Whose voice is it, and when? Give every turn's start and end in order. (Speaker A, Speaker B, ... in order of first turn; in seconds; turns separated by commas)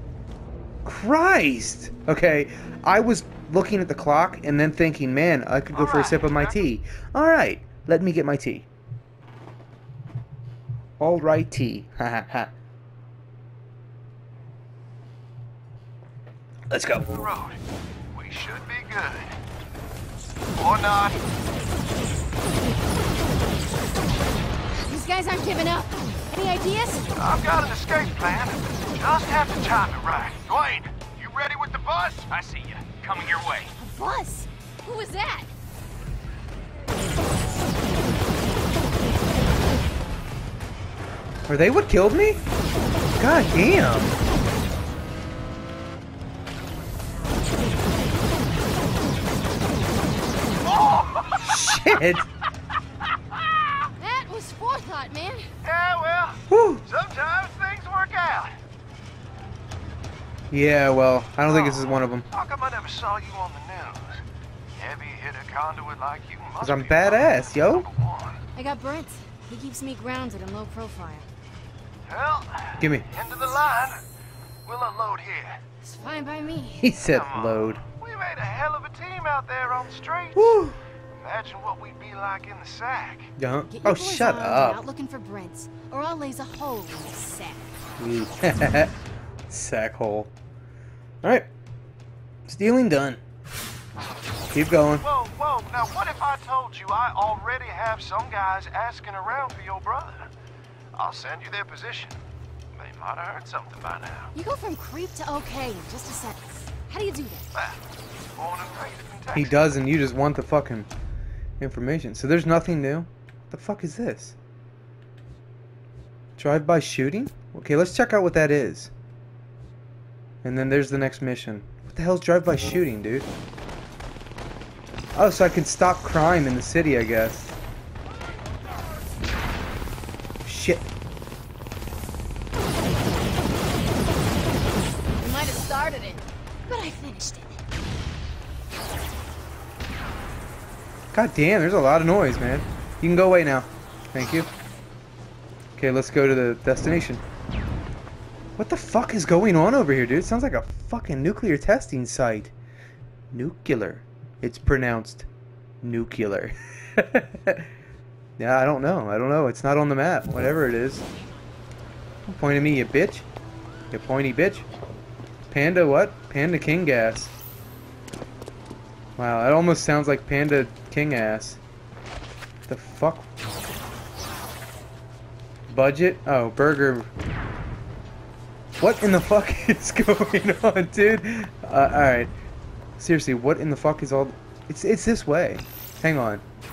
Speaker A: 0.8-8.7, Speaker B: 5.7-6.7, Speaker A: 11.0-12.5, Speaker A: 16.7-17.1, Speaker B: 17.1-17.6, Speaker B: 18.1-19.4, Speaker B: 20.6-21.2, Speaker C: 24.9-27.2, Speaker B: 27.1-33.7, Speaker C: 33.8-35.5, Speaker A: 41.5-42.4, Speaker A: 43.2-44.1, Speaker B: 50.6-51.9, Speaker A: 51.4-52.3, Speaker B: 53.3-53.9, Speaker C: 54.0-55.5, Speaker B: 55.6-58.6, Speaker A: 56.5-56.8, Speaker A: 60.5-62.2, Speaker B: 61.5-68.4, Speaker A: 66.6-67.9, Speaker C: 68.5-71.3, Speaker B: 72.0-74.0, Speaker A: 72.8-73.1, Speaker B: 74.6-75.6, Speaker C: 75.8-76.9, Speaker A: 76.8-77.8, Speaker B: 77.0-80.6, Speaker A: 80.3-80.8, Speaker B: 81.2-83.3, Speaker A: 83.4-84.8, Speaker C: 83.7-87.7, Speaker A: 88.0-88.9, Speaker A: 89.5-90.3, Speaker A: 91.2-91.5, Speaker A: 92.5-93.2, Speaker A: 94.5-95.0, Speaker B: 95.0-100.3, Speaker B: 100.9-102.2, Speaker B: 102.7-104.3, Speaker C: 104.3-107.5, Speaker B: 107.5-109.6, Speaker A: 109.3-110.9, Speaker A: 111.6-114.3, Speaker A: 116.4-118.9, Speaker A: 120.4-123.3, Speaker A: 125.1-127.5, Speaker A: 130.4-130.8, Speaker C: 135.2-137.6, Speaker A: 141.1-144.5, Speaker A: 145.8-147.2, Speaker A: 148.6-152.5, Speaker A: 153.3-155.3, Speaker A: 155.8-157.7, Speaker A: 158.4-161.1, Speaker A: 162.3-163.2, Speaker A: 163.9-164.7, Speaker A: 165.5-167.3, Speaker A: 169.2-171.6, Speaker A: 172.7-173.2, Speaker A: 175.7-177.1, Speaker A: 178.8-182.3, Speaker A: 183.0-186.4